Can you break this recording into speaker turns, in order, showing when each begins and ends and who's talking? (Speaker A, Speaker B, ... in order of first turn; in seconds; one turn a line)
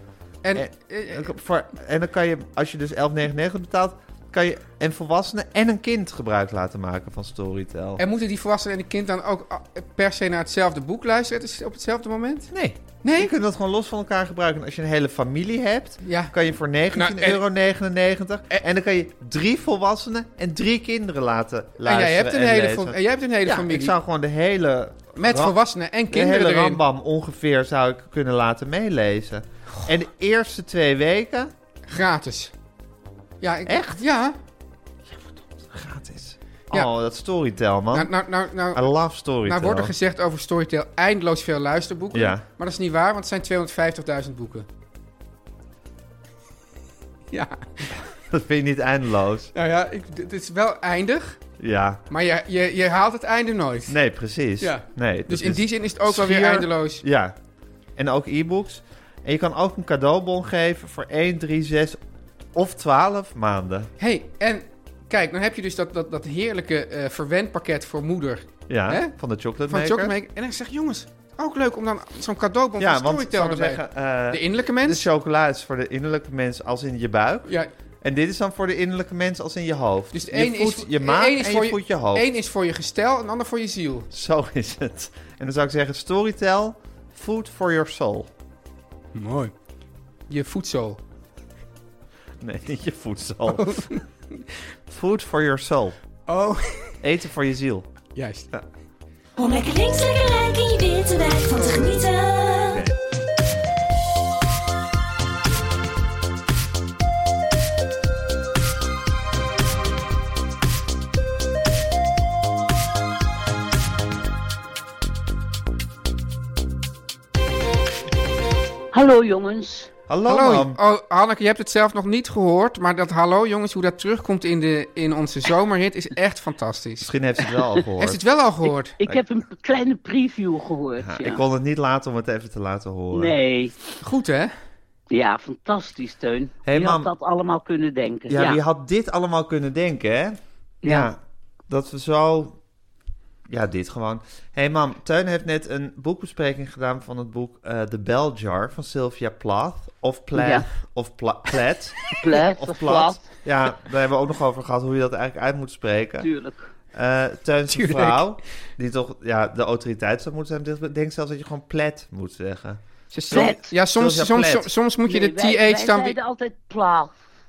Speaker A: 0.4-1.3
Speaker B: 0.5-8.0
Speaker A: 8.0-12.5
Speaker B: 12.5-25.5
Speaker A: 13.0-13.3
Speaker A: 16.0-16.3
Speaker A: 16.9-17.4
Speaker A: 21.8-23.9
Speaker A: 25.1-26.8
Speaker B: 26.1-31.5
Speaker A: 31.9-32.5
Speaker A: 33.4-34.4
Speaker B: 33.6-34.0
Speaker B: 35.1-38.1
Speaker A: 37.9-38.9
Speaker B: 38.7-39.9
Speaker A: 39.4-44.6
Speaker B: 42.1-42.4
Speaker A: 47.3-48.0
Speaker B: 48.0-49.5
Speaker A: 49.5-51.4
Speaker B: 51.6-52.0
Speaker A: 52.1-54.0
Speaker B: 53.9-57.4
Speaker A: 54.6-57.0
Speaker B: 58.0-62.0
Speaker B: 62.5-63.9
Speaker A: 64.0-69.1
Speaker B: 68.7-70.1
Speaker A: 69.7-75.0
Speaker B: 72.8-82.3
Speaker A: 80.1-84.1
Speaker B: 84.1-88.3
Speaker A: 89.1-89.5
Speaker A: 90.3-91.0
Speaker B: 92.4-94.0
Speaker A: 93.5-94.4
Speaker B: 94.9-96.0
Speaker A: 96.3-97.0
Speaker B: 97.0-97.9
Speaker A: 98.1-98.5
Speaker C: 99.4-102.9
Speaker D: 118.9-119.9
Speaker B: 120.1-120.8
Speaker A: 120.2-127.1
Speaker B: 127.0-128.2
Speaker A: 128.0-129.0
Speaker D: 129.0-131.4
Speaker B: 131.0-133.3
Speaker D: 133.1-133.8
Speaker A: 134.0-134.5
Speaker D: 135.1-138.6
Speaker B: 136.7-137.1
Speaker B: 138.3-141.2
Speaker D: 140.8-141.1
Speaker B: 141.7-142.6
Speaker B: 143.5-156.3
Speaker D: 150.3-150.7
Speaker D: 152.2-153.2
Speaker D: 156.2-156.7
Speaker B: 156.9-164.7
Speaker A: 157.7-158.2
Speaker A: 163.1-166.2
Speaker D: 163.3-163.7
Speaker D: 165.1-167.2